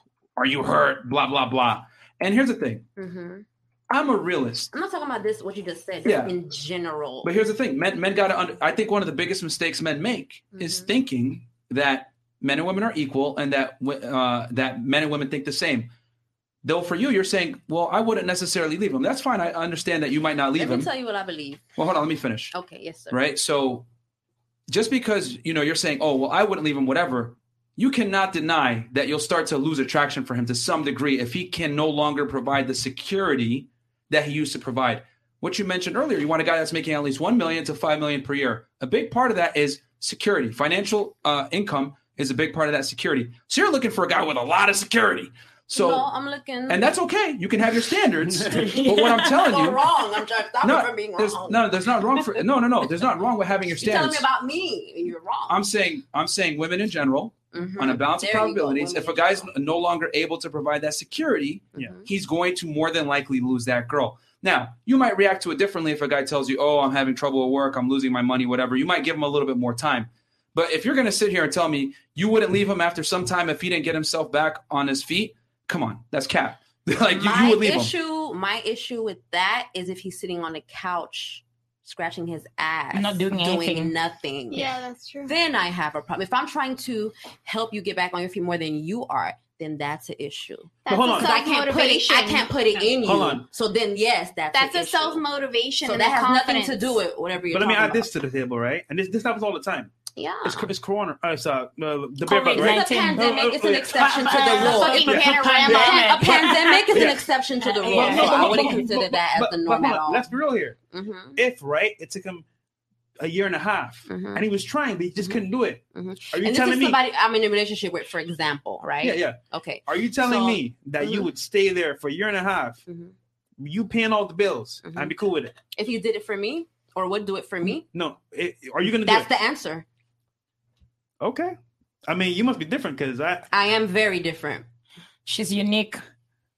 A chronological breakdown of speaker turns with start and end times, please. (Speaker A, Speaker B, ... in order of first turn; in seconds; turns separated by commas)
Speaker A: 0.4-2.9, Speaker B: 3.0-3.5, Speaker A: 3.9-4.7, Speaker B: 4.7-7.3, Speaker A: 6.0-6.3, Speaker A: 7.2-15.9, Speaker B: 10.5-10.9, Speaker A: 16.6-20.9, Speaker B: 20.6-21.7, Speaker A: 21.8-22.5, Speaker B: 22.5-23.2, Speaker A: 23.1-23.9, Speaker A: 24.7-46.1, Speaker B: 45.7-46.9, Speaker A: 46.7-49.8, Speaker B: 48.5-51.7, Speaker C: 48.6-49.2, Speaker A: 50.6-54.3, Speaker B: 53.8-55.6, Speaker A: 55.5-77.9, Speaker B: 57.5-59.5, Speaker B: 61.7-62.1, Speaker B: 77.1-95.2, Speaker C: 82.9-83.9, Speaker D: 84.5-85.3, Speaker D: 90.8-92.5, Speaker E: 90.9-91.3, Speaker E: 93.0-93.5, Speaker D: 94.5-96.9, Speaker B: 95.8-98.1, Speaker E: 97.5-104.0, Speaker B: 100.2-100.7, Speaker C: 102.3-108.9, Speaker B: 102.3-110.3, Speaker D: 104.6-106.3, Speaker E: 106.9-107.2, Speaker E: 107.9-110.8, Speaker B: 110.9-111.4, Speaker E: 111.3-112.5, Speaker E: 113.2-115.8, Speaker B: 114.1-114.5, Speaker B: 115.2-121.3, Speaker E: 116.3-117.0, Speaker E: 119.0-122.8, Speaker B: 122.9-123.1, Speaker E: 123.6-125.5, Speaker B: 124.8-125.2, Speaker B: 125.7-127.9, Speaker E: 127.9-129.3, Speaker B: 128.9-129.9, Speaker E: 131.2-133.5, Speaker B: 133.5-134.7, Speaker C: 135.3-136.0